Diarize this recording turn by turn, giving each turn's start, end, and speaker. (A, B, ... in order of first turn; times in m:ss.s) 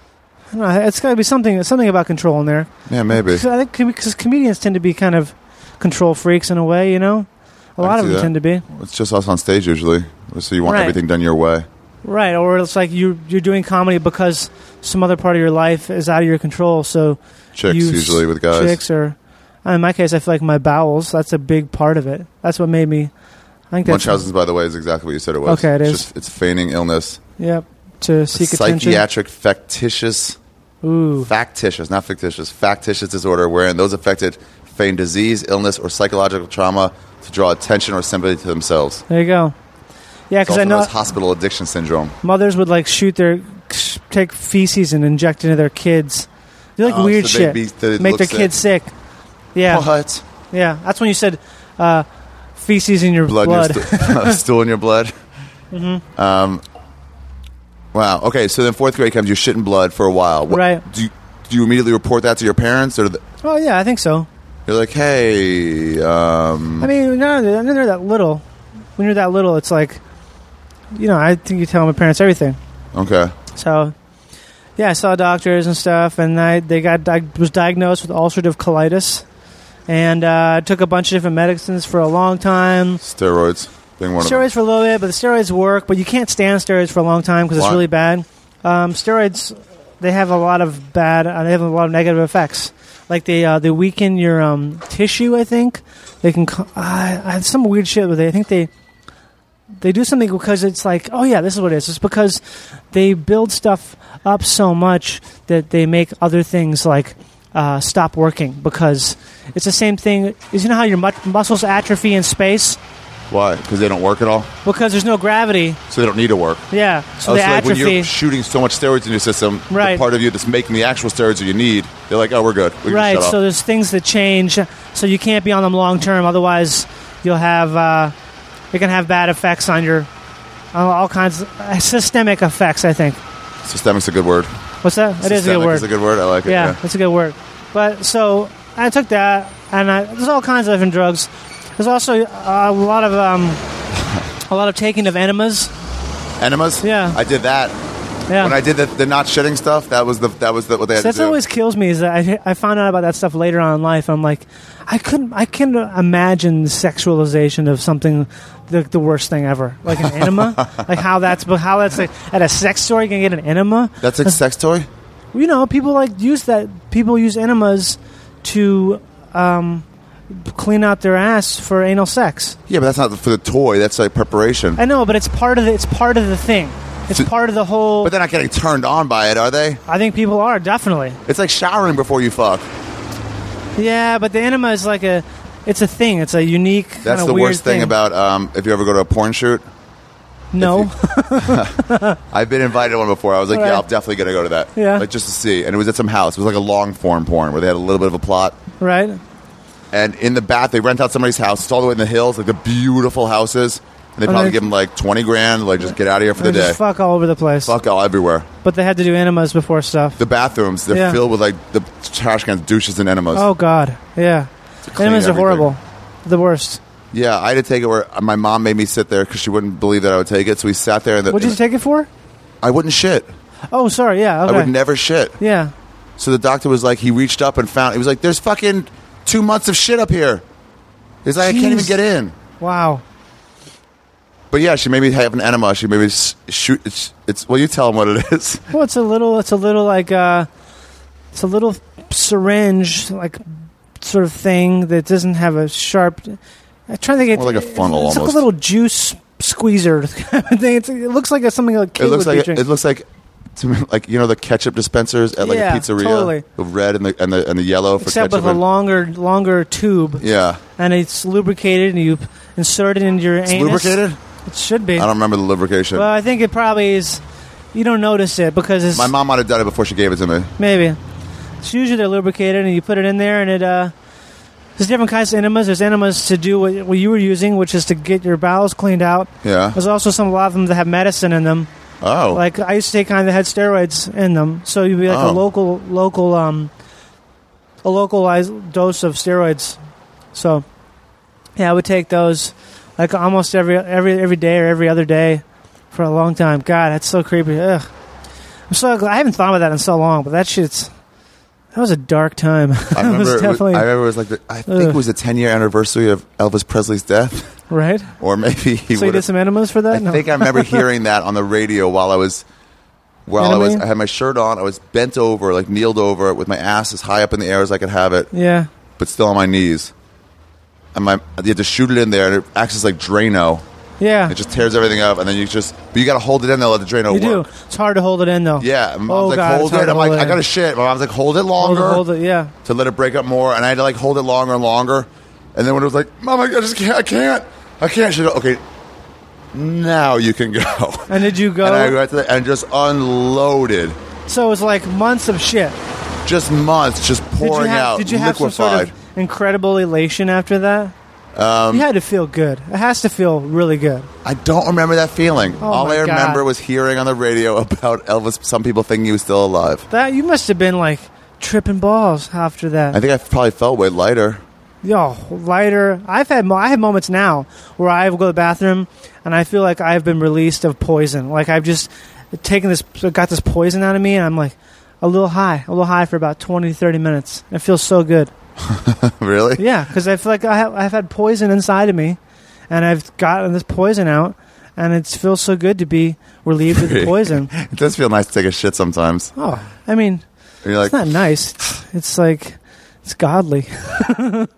0:00.5-0:08.6 A
0:02.9-0:03.4 B
0:07.8-0:11.7 B
0:10.6-0:11.0 A
0:12.0-0:23.1 A
0:17.5-0:18.8 B
0:23.7-0:24.2 A
0:23.8-0:27.2 B
0:25.4-0:26.0 A
0:27.4-0:29.0 A
0:28.3-0:30.4 B
0:30.8-0:31.3 A
0:31.2-0:39.0 B
0:39.1-0:39.5 A
0:40.3-0:40.9 A
0:40.4-0:42.1 B
0:42.2-0:48.9 A
0:46.8-0:48.5 B
0:49.5-0:49.9 A
0:49.6-0:50.2 B
0:50.5-0:54.4 A
0:53.3-0:55.1 B
0:55.7-0:56.0 A
0:56.2-0:56.6 B
0:57.9-1:03.2 B
1:00.5-1:00.8 A
1:03.4-1:04.3 A
1:04.7-1:06.9 B
1:06.8-1:08.4 A
1:09.0-1:10.0 A
1:10.9-1:12.6 A
1:12.9-1:13.3 B
1:13.5-1:13.9 A
1:14.8-1:19.2 A
1:19.9-1:23.0 A
1:23.0-1:24.4 B
1:24.2-1:38.7 A
1:27.6-1:27.8 B
1:39.8-1:52.8 A
1:53.3-1:54.5 B
1:54.6-1:55.8 A
1:55.9-1:56.6 B
1:56.7-1:58.1 A
1:57.2-2:03.4 B
1:59.7-2:00.0 A
2:02.9-2:08.1 A
2:08.7-2:10.1 A
2:10.7-2:13.2 A
2:13.6-2:14.5 B
2:14.8-2:15.9 A
2:15.2-2:16.8 B
2:16.4-2:23.6 A
2:24.5-2:25.7 A
2:26.4-2:27.7 B
2:26.8-2:27.2 A
2:28.3-2:28.5 A
2:28.4-2:31.4 B
2:31.0-2:44.4 A
2:40.0-2:40.8 B
2:44.0-2:44.9 B
2:45.3-2:52.6 A
2:52.7-2:54.8 B
2:54.8-2:58.1 A
2:58.0-2:59.8 B
2:59.9-3:01.2 A
3:01.2-3:02.7 B
3:03.8-3:07.9 A
3:07.0-3:09.6 B
3:10.5-3:12.2 A
3:10.6-3:18.6 B
3:13.5-3:13.8 A
3:14.8-3:15.0 A
3:18.8-3:19.2 A
3:19.9-3:26.8 B
3:24.2-3:24.6 A
3:26.4-3:27.7 A
3:27.6-3:28.5 B
3:28.6-3:30.2 A
3:30.2-3:33.5 B
3:30.9-3:31.2 A
3:33.3-3:36.8 A
3:34.9-3:35.7 B
3:37.1-3:41.6 B
3:41.3-3:42.1 A
3:42.6-3:43.3 B
3:43.7-3:44.7 A
3:44.4-3:45.4 B
3:45.4-3:45.7 A
3:46.2-3:50.4 B
3:51.2-3:52.3 B
3:51.4-3:52.0 A
3:52.6-3:53.0 A
3:54.5-3:58.6 B
3:58.7-4:00.5 A
4:01.3-4:03.4 A
4:04.0-4:12.6 A
4:07.3-4:08.4 B
4:12.0-4:18.6 B
4:15.4-4:16.4 A
4:18.0-4:20.2 A
4:20.2-4:20.6 B
4:20.8-4:25.1 A
4:23.4-4:24.2 B
4:25.0-4:26.1 B
4:25.9-4:27.2 A
4:27.7-4:29.1 A
4:28.9-4:30.5 B
4:30.6-4:31.0 A
4:31.6-4:33.9 A
4:34.8-4:41.7 A
4:39.4-4:39.8 B
4:42.0-4:42.4 B
4:42.3-4:46.7 A
4:45.1-4:45.4 B
4:47.8-4:49.8 A
4:50.3-4:50.6 A
4:51.6-4:57.8 A
4:58.7-5:00.9 A
5:01.7-5:03.9 A
5:02.9-5:07.5 B
5:04.7-5:05.0 A
5:07.7-5:08.1 A
5:08.2-5:09.3 B
5:08.9-5:10.8 A
5:09.9-5:12.4 B
5:13.3-5:18.3 B
5:13.4-5:13.8 A
5:18.3-5:18.7 A
5:19.0-5:19.9 B
5:20.9-5:23.6 B
5:24.0-5:24.3 A
5:24.3-5:27.5 B
5:27.1-5:30.4 A
5:28.6-5:32.0 B
5:31.6-5:32.5 A
5:32.6-5:38.6 B
5:39.5-5:44.0 B
5:41.1-5:42.0 A
5:44.3-5:45.8 A
5:46.2-5:48.9 B
5:47.4-5:50.9 A
5:51.3-5:51.8 B
5:51.7-5:54.1 A
5:54.2-5:59.9 B
5:55.6-5:56.4 A
5:59.9-6:03.0 A
6:02.9-6:04.4 B
6:04.8-6:18.3 A
6:18.6-6:19.6 B
6:19.6-6:22.2 A
6:22.7-6:27.5 A
6:26.7-6:29.3 B
6:29.4-6:30.2 A
6:30.6-6:31.0 B
6:30.8-6:34.5 A